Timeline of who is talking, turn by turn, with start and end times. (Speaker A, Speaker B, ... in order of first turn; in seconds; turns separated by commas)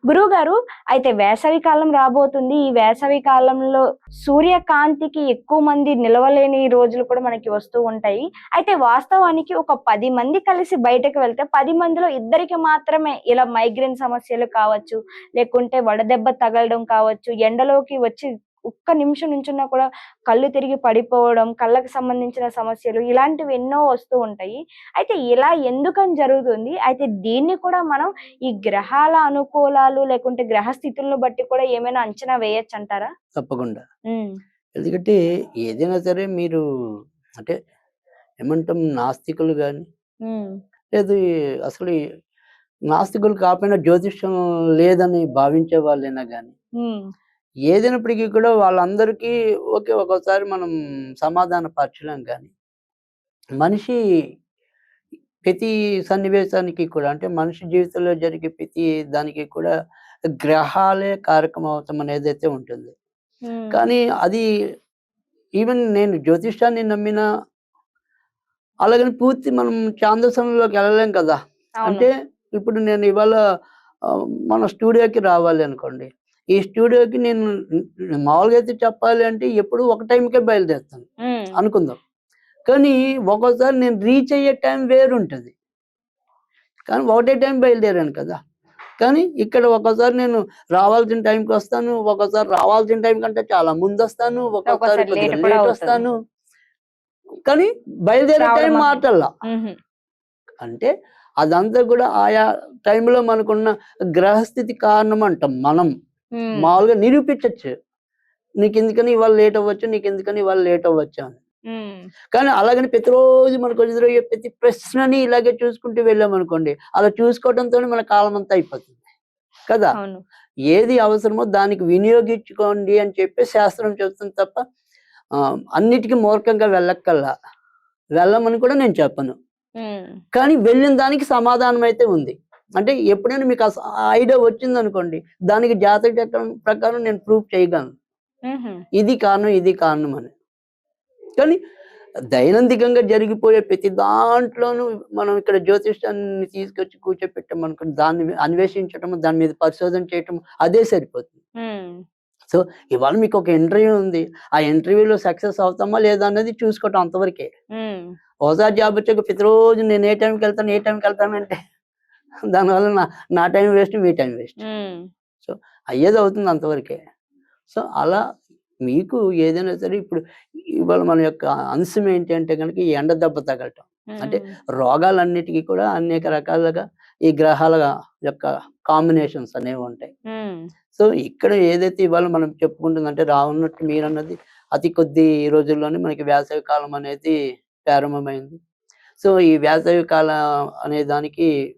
Speaker A: 0.1-33.1, Speaker B: 33.4-33.8, Speaker B: 34.8-36.6, Speaker B: 38.4-39.9, Speaker A: 40.3-40.5, Speaker B: 40.9-42.0, Speaker B: 42.9-46.5, Speaker A: 46.8-47.1, Speaker B: 47.7-50.7, Speaker B: 51.2-52.5, Speaker B: 53.6-54.0, Speaker B: 55.5-59.7, Speaker B: 60.4-62.9, Speaker A: 63.5-63.8, Speaker B: 63.7-64.4, Speaker B: 65.6-67.2, Speaker B: 68.8-73.4, Speaker B: 74.1-77.5, Speaker B: 78.2-82.0, Speaker A: 81.2-81.6, Speaker B: 82.7-85.5, Speaker B: 86.9-88.4, Speaker B: 89.0-96.1, Speaker A: 94.7-96.0, Speaker B: 97.5-99.3, Speaker A: 98.4-99.8, Speaker B: 100.6-100.9, Speaker B: 101.4-105.9, Speaker A: 106.4-106.8, Speaker B: 106.6-107.7, Speaker B: 108.6-111.4, Speaker A: 111.7-112.0, Speaker B: 112.3-119.0, Speaker B: 119.7-120.0, Speaker A: 120.0-120.2, Speaker B: 120.7-124.6, Speaker B: 125.4-127.3, Speaker B: 128.2-129.4, Speaker A: 129.8-130.1, Speaker B: 130.3-137.9, Speaker A: 138.5-138.8, Speaker B: 139.0-140.3, Speaker B: 142.3-151.4, Speaker A: 151.6-152.0, Speaker B: 152.5-157.5, Speaker A: 157.8-158.0, Speaker B: 158.5-161.6, Speaker B: 162.5-164.6, Speaker A: 164.6-165.0, Speaker B: 165.4-167.0, Speaker B: 167.7-168.2, Speaker B: 168.9-170.2, Speaker B: 170.8-180.1, Speaker A: 174.2-174.4, Speaker B: 180.9-187.4, Speaker B: 187.9-188.6, Speaker B: 189.2-191.5